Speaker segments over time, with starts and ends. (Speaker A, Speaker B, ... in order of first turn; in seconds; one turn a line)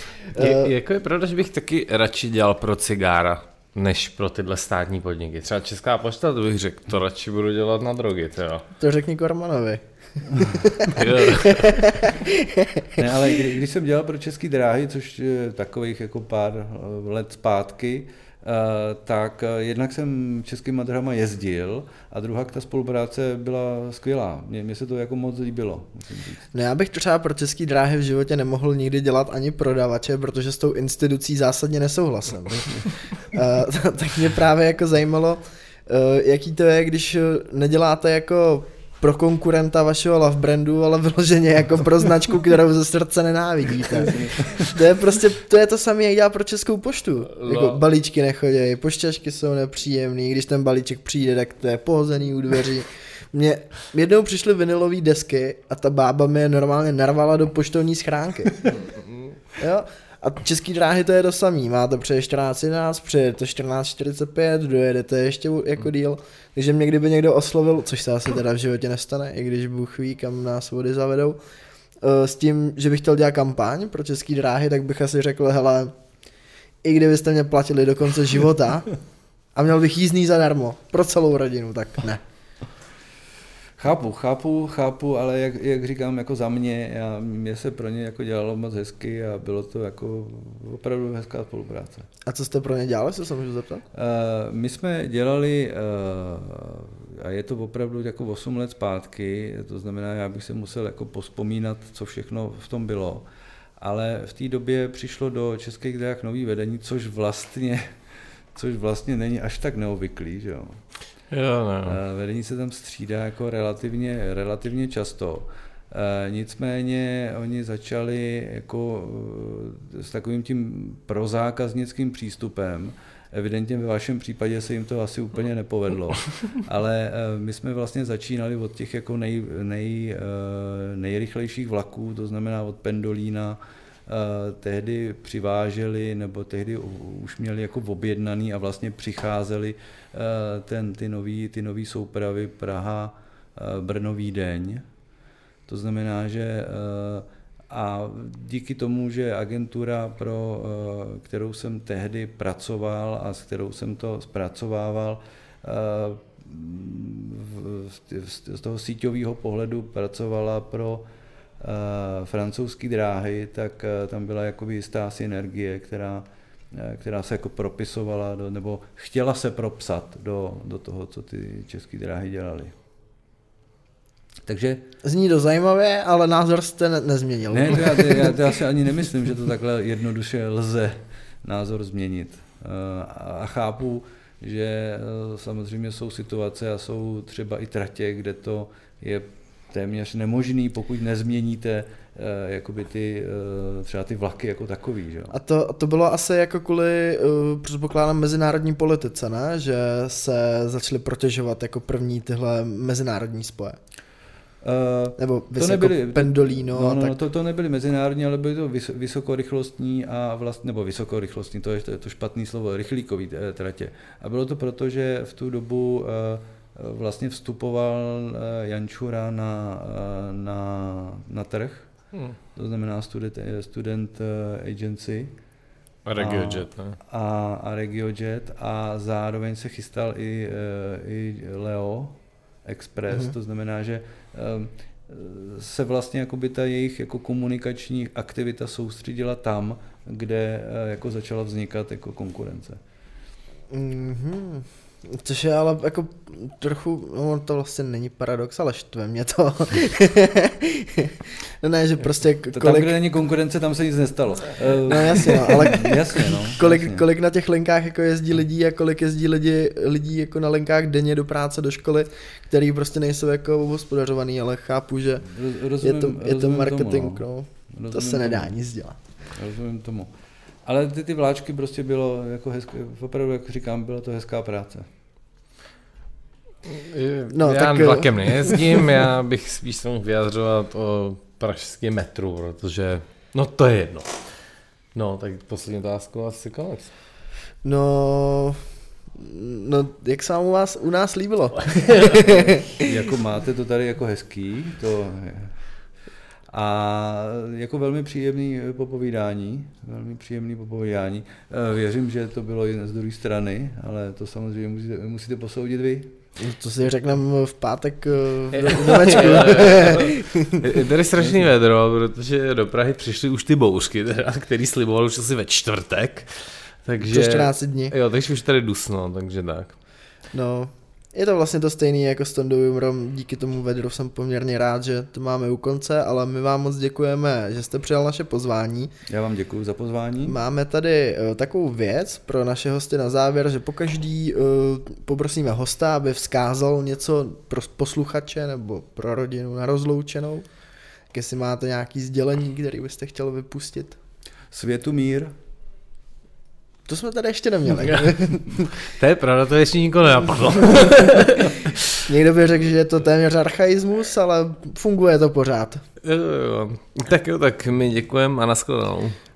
Speaker A: 0.3-0.7
Speaker B: 0.4-8.7
Speaker A: 8.8-13.0
Speaker B: 10.9-11.9
Speaker C: 12.9-26.4
Speaker A: 26.5-58.7
Speaker C: 44.0-44.6
Speaker B: 47.4-47.8
Speaker A: 59.6-71.4
Speaker A: 72.0-75.9
Speaker A: 76.8-78.9
Speaker A: 79.5-82.2
Speaker C: 83.8-92.1
Speaker A: 92.2-93.8
Speaker C: 93.9-103.2
Speaker C: 103.8-107.9
Speaker C: 108.5-110.8
Speaker B: 111.3-112.0
Speaker C: 111.8-144.8
Speaker C: 145.7-161.1
Speaker C: 161.6-172.7
Speaker C: 174.4-174.8
Speaker A: 175.0-178.3
Speaker C: 177.5-195.3
Speaker A: 195.3-203.8
Speaker C: 204.6-221.9
Speaker A: 205.2-207.2
Speaker C: 222.5-225.3
Speaker B: 226.0-227.0
Speaker C: 226.2-242.8
Speaker A: 243.7-252.9
Speaker C: 252.5-257.0
Speaker A: 254.9-269.0
Speaker C: 265.2-268.5
Speaker C: 269.3-270.1
Speaker C: 270.6-274.9
Speaker B: 276.6-284.2
Speaker A: 277.3-278.6
Speaker B: 284.9-286.9
Speaker A: 287.6-288.6
Speaker A: 289.1-292.9
Speaker B: 291.7-292.4
Speaker C: 292.7-295.6
Speaker C: 296.5-306.1
Speaker A: 306.4-310.6
Speaker B: 308.6-319.7
Speaker C: 308.7-310.0
Speaker C: 311.2-311.5
Speaker A: 317.0-317.9
Speaker A: 320.3-328.9
Speaker C: 329.1-330.4
Speaker A: 330.2-340.4
Speaker A: 341.1-344.0
Speaker C: 344.5-345.3
Speaker A: 346.9-348.7
Speaker B: 348.8-351.9
Speaker A: 352.0-355.8
Speaker B: 356.0-359.2